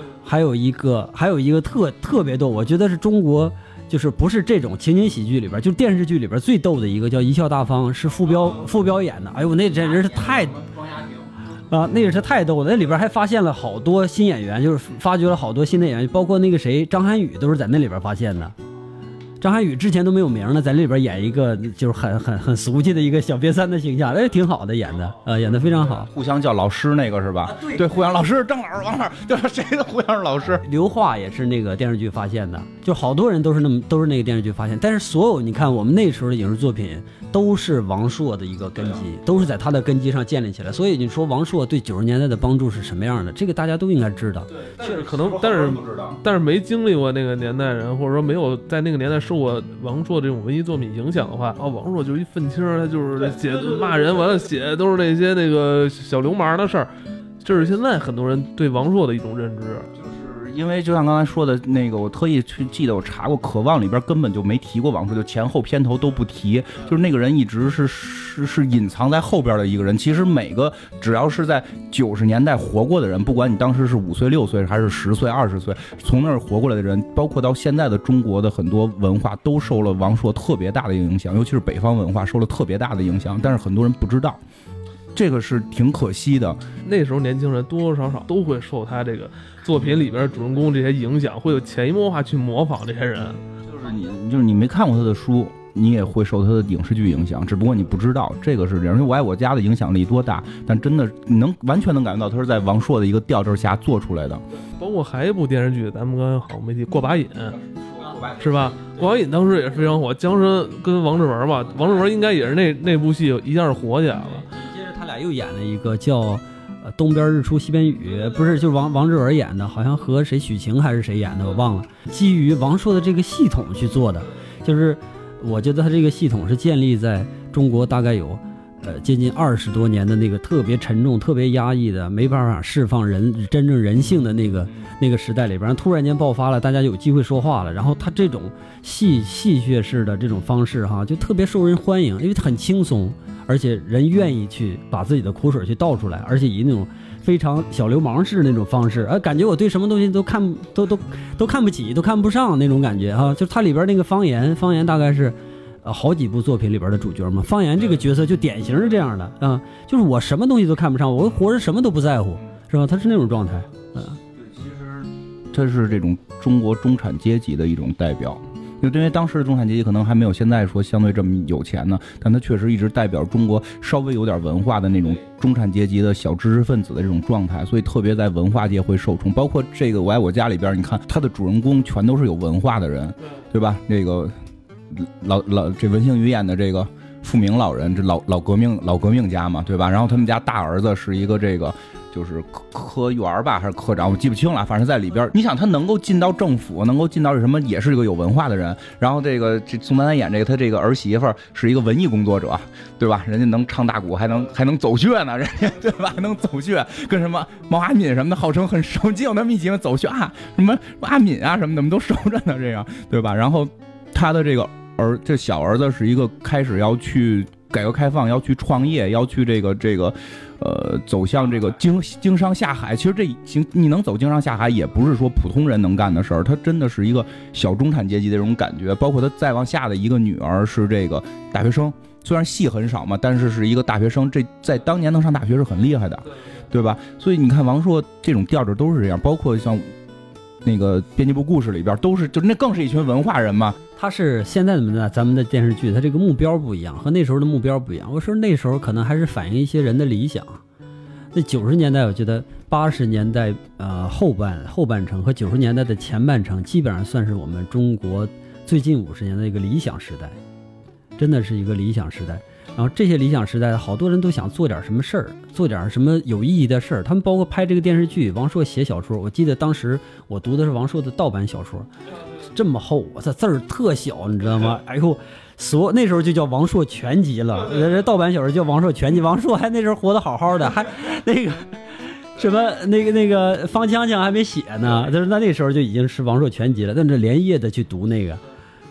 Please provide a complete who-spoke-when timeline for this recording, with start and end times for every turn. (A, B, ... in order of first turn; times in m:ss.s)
0:00.2-0:11.0 A
0:11.7-0:18.5 A
0:19.4-0:26.1 A
0:26.1-0:30.6 B
0:27.5-0:27.8 A
0:30.6-0:44.7 A
0:44.7-0:56.9 C
0:44.8-0:46.2 B
0:53.2-0:54.0 B
0:57.4-0:59.9 C
1:00.0-1:24.4 B
1:25.1-1:26.6 B
1:26.8-1:33.4 C
1:33.7-1:44.4 B
1:44.8-1:47.6 C
1:47.6-1:48.8 B
1:48.4-1:54.5 C
1:54.4-2:44.2 A
2:44.4-3:04.3 B
3:04.9-3:59.9 B
4:00.6-4:03.8 B
4:04.0-4:10.6 A
4:11.3-4:20.4 A
4:21.2-4:31.9 A
4:32.5-4:48.4 A